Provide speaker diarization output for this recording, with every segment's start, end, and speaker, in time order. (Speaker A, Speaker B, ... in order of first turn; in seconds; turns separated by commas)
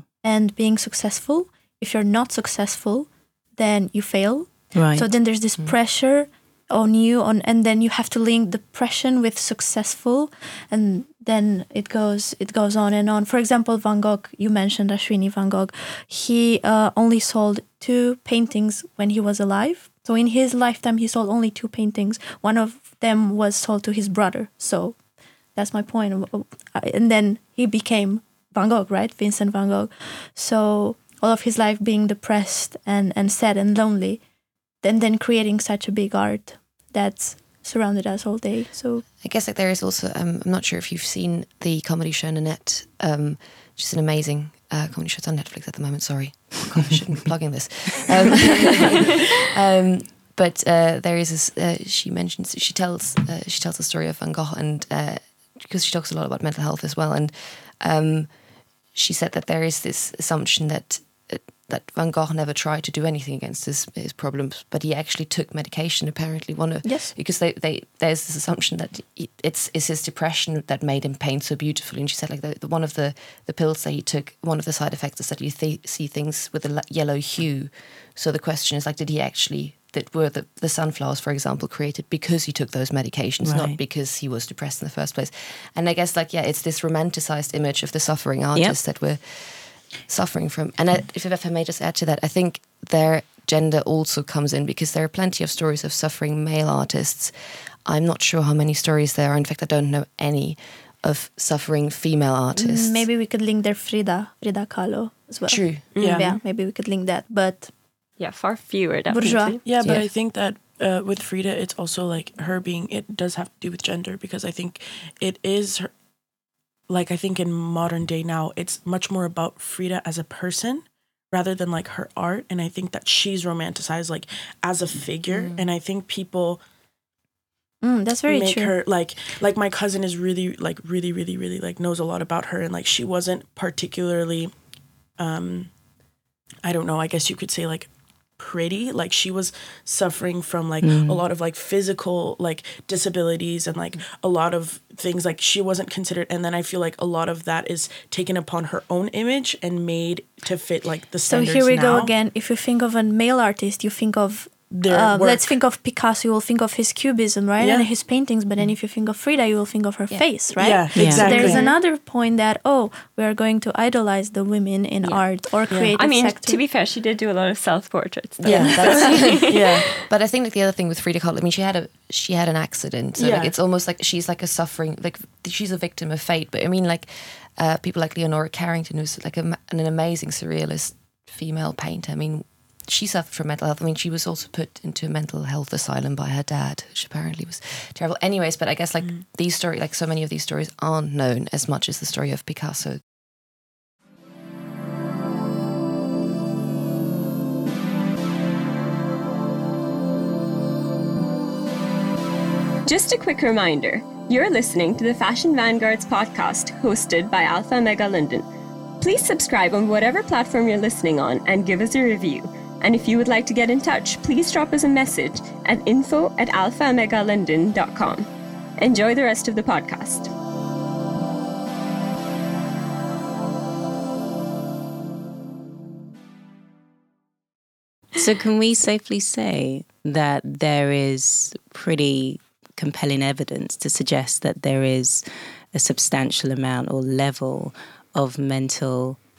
Speaker A: 0.2-25.0, Speaker B: 4.7-5.1, Speaker A: 25.5-34.2, Speaker A: 34.8-39.0, Speaker C: 39.2-58.3, Speaker C: 58.9-97.3, Speaker A: 66.8-67.1, Speaker B: 83.4-83.8, Speaker C: 97.8-103.1, Speaker A: 102.5-107.7, Speaker C: 105.5-105.9, Speaker D: 105.9-106.4, Speaker E: 108.2-109.6, Speaker A: 109.1-109.8, Speaker D: 109.6-115.9, Speaker C: 109.8-110.1, Speaker D: 116.9-126.6, Speaker C: 125.3-125.7, Speaker A: 127.8-128.8, Speaker D: 128.3-134.5, Speaker D: 135.2-135.7, Speaker D: 136.6-152.1, Speaker B: 140.8-141.2, Speaker A: 151.2-166.6, Speaker D: 154.7-155.6, Speaker D: 157.6-157.9, Speaker D: 160.5-161.6, Speaker B: 160.9-161.4, Speaker E: 161.1-161.8, Speaker E: 165.0-165.3, Speaker E: 165.9-170.0, Speaker C: 168.4-193.0, Speaker A: 168.5-169.0, Speaker D: 168.6-169.9, Speaker D: 173.2-173.5, Speaker E: 202.9-208.5, Speaker E: 209.0-220.3, Speaker B: 228.2-239.2